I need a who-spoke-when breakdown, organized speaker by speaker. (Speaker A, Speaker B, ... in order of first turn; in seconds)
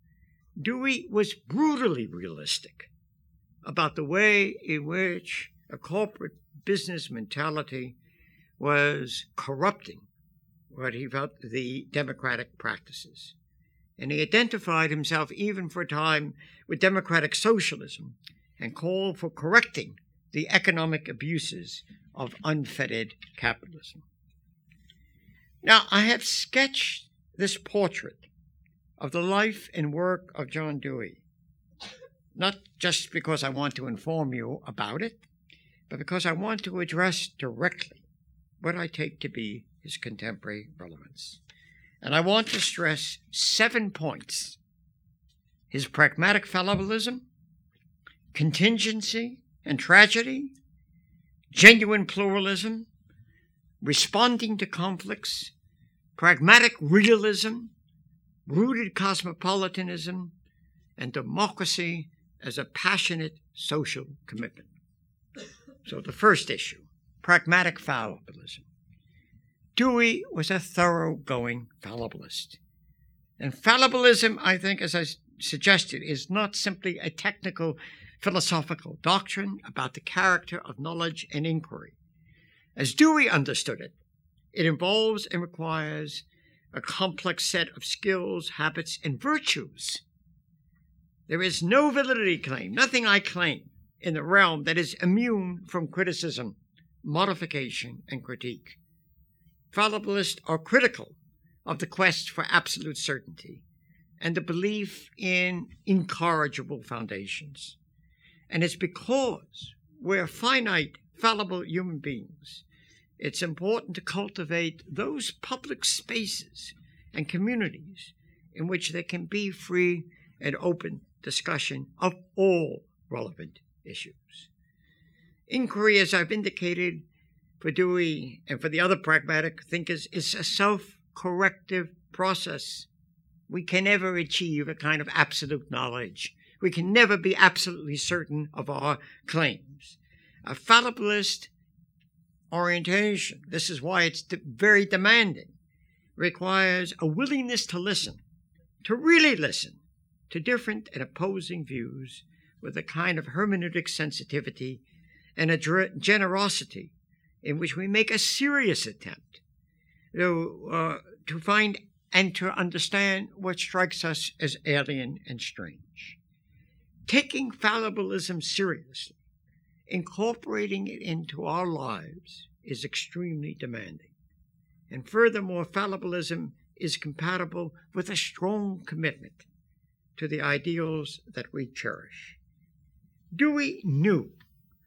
Speaker A: 0.6-2.9, 3.6-8.0, 8.6-10.1, 10.7-13.3, 14.0-24.0, 25.6-28.2, 29.0-31.2, 32.3-35.2, 35.9-38.0, 38.6-41.4, 42.0-44.6, 45.7-47.2, 48.3-50.5, 51.5-52.9, 53.8-55.5, 56.1-57.7, 58.5-60.3, 61.0-64.7, 65.8-68.7, 69.8-72.6, 73.4-81.9, 82.8-84.0, 84.5-90.0, 91.3-98.8, 99.7-103.6, 104.2-107.8, 108.5-112.6, 113.2-124.5, 125.5-127.0, 127.6-132.9, 133.5-141.5, 142.5-145.5, 146.2-148.2, 148.8-154.8, 155.3-159.4, 160.1-166.2, 167.1-169.1, 169.9-174.1, 174.9-179.5, 180.2-182.4, 183.3-184.3